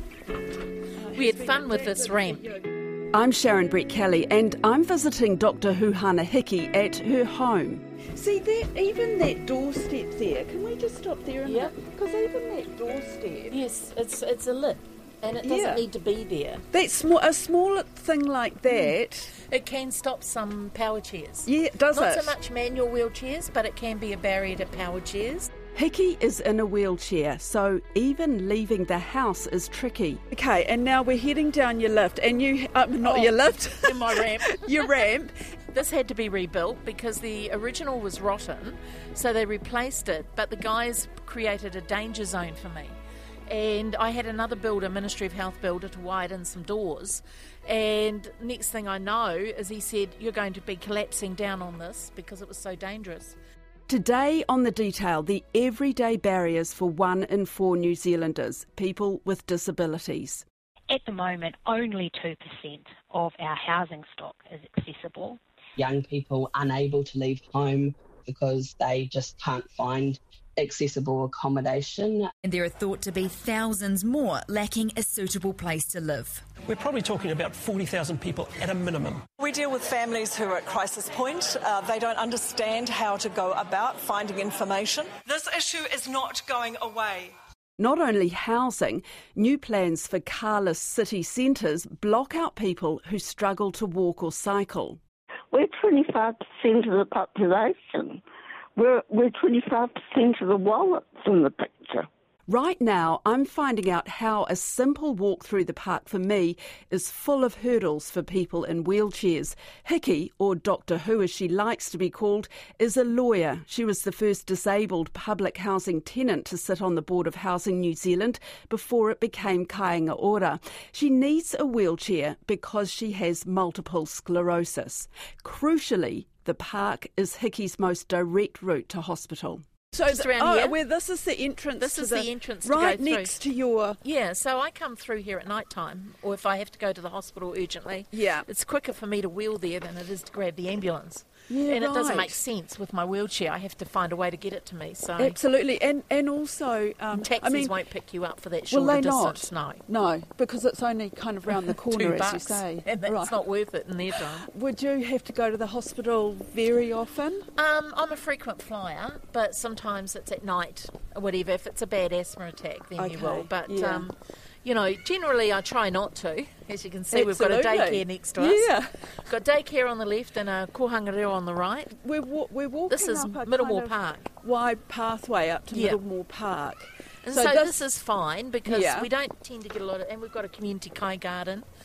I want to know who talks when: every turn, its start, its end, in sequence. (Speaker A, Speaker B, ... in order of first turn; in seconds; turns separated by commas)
Speaker A: 1.1-13.5, Speaker B: 1.1-2.5, Speaker B: 11.4-11.7, Speaker B: 13.5-16.6, Speaker A: 15.4-15.8, Speaker A: 16.7-19.3, Speaker B: 18.7-18.9, Speaker B: 19.5-25.5, Speaker A: 21.4-22.3, Speaker A: 25.7-35.3, Speaker B: 33.0-35.0, Speaker B: 35.7-42.9, Speaker B: 43.5-53.4, Speaker A: 53.9-60.4, Speaker C: 60.9-65.4, Speaker D: 65.8-72.3, Speaker E: 72.4-76.4, Speaker F: 76.7-79.2, Speaker G: 79.5-87.3, Speaker A: 87.8-95.0, Speaker H: 95.5-98.2, Speaker H: 98.8-102.1, Speaker A: 102.5-134.0, Speaker B: 130.1-130.8, Speaker B: 131.8-133.3, Speaker B: 134.0-145.4, Speaker A: 138.1-138.4, Speaker A: 141.5-142.4, Speaker A: 145.2-147.7, Speaker B: 147.1-149.8, Speaker A: 148.7-153.4, Speaker B: 151.5-154.5, Speaker A: 154.2-157.5, Speaker B: 157.6-168.7, Speaker A: 163.0-164.1, Speaker A: 167.1-168.8, Speaker B: 169.2-171.9, Speaker A: 172.0-177.8, Speaker B: 172.9-174.3, Speaker B: 175.7-176.0, Speaker B: 177.2-181.7, Speaker A: 178.7-179.1